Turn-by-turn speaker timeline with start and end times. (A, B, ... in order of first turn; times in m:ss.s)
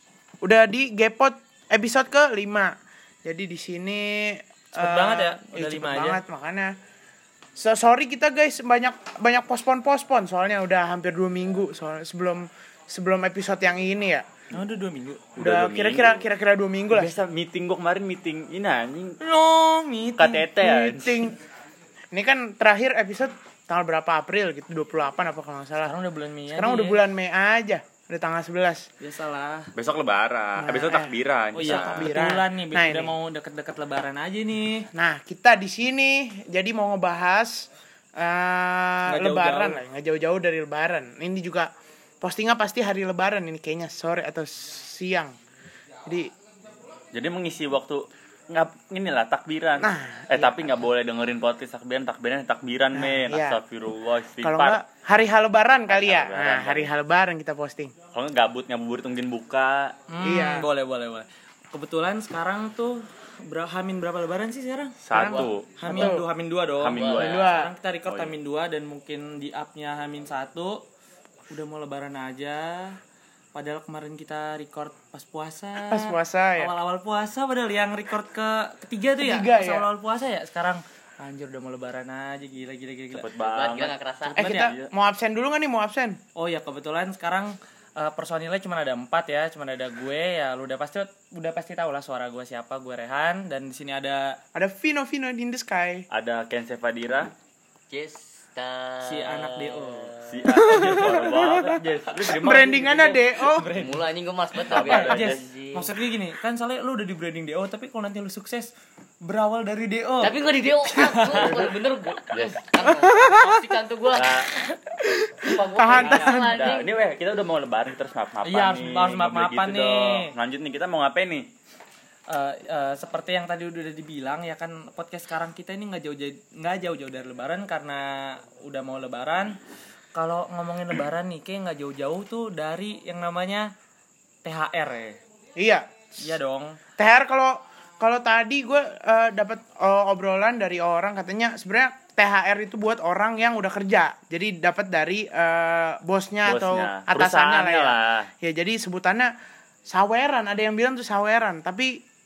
0:00.4-0:02.7 A
0:03.2-0:06.7 A
0:04.8-0:06.2 B
0:07.6-0:14.3 A
0:14.5-0:15.3 B
0:15.4-0:16.3 C
0:15.4-0:17.1 A
0:16.9-0:19.2 C
0:19.2-0:20.5 B
0:20.2-0:21.3 C
0:20.6-0:21.4 A
0:22.1-0:25.9 A
0:25.8-0:27.0 B
0:26.5-0:28.9 A
0:29.0-0:29.7 B
0:29.8-0:32.1 C
0:30.6-0:33.1 A
0:31.5-0:34.9 B
0:34.9-0:41.7 A
0:39.1-0:39.8 B
0:42.2-0:45.3 A
0:47.1-0:54.8 C
0:49.8-0:50.7 A
0:52.9-0:53.6 A
0:54.4-0:57.9 A
0:55.9-0:56.9 C
0:58.1-1:00.0 C
1:00.1-1:05.0 B
1:00.2-1:00.7 A
1:05.0-1:06.0 C
1:05.1-1:06.2 A
1:05.2-1:05.5 D
1:05.8-1:10.8 B
1:06.8-1:07.5 C
1:06.9-1:07.5 D
1:07.2-1:07.7 A
1:08.1-1:08.4 C
1:11.5-1:13.0 B
1:13.5-1:23.3 B
1:15.9-1:16.7 A
1:19.2-1:19.8 A
1:23.1-1:24.9 C
1:23.4-1:24.4 D
1:24.3-1:26.2 A
1:26.4-1:34.4 B
1:34.5-1:36.1 A
1:36.1-1:37.3 C
1:37.9-1:40.3 D
1:39.0-1:40.1 B
1:40.3-1:43.3 C
1:40.5-1:43.7 A
1:43.5-1:44.1 B
1:43.8-1:45.9 D
1:44.7-1:45.4 C
1:44.8-1:48.7 B
1:49.2-1:51.7 B
1:50.2-1:54.4 D
1:52.3-1:52.6 C
1:53.0-1:53.5 A
1:54.1-1:54.5 C
1:55.0-1:56.8 A
1:55.4-1:56.9 D
1:56.0-1:56.2 B
1:56.3-2:01.5 C
1:58.4-2:00.3 B
2:02.3-2:09.6 B
2:10.2-2:13.7 B
2:14.4-2:15.2 B
2:15.6-2:16.3 A
2:16.2-2:16.8 B
2:17.0-2:29.3 A
2:26.4-2:28.3 C
2:29.9-2:32.0 A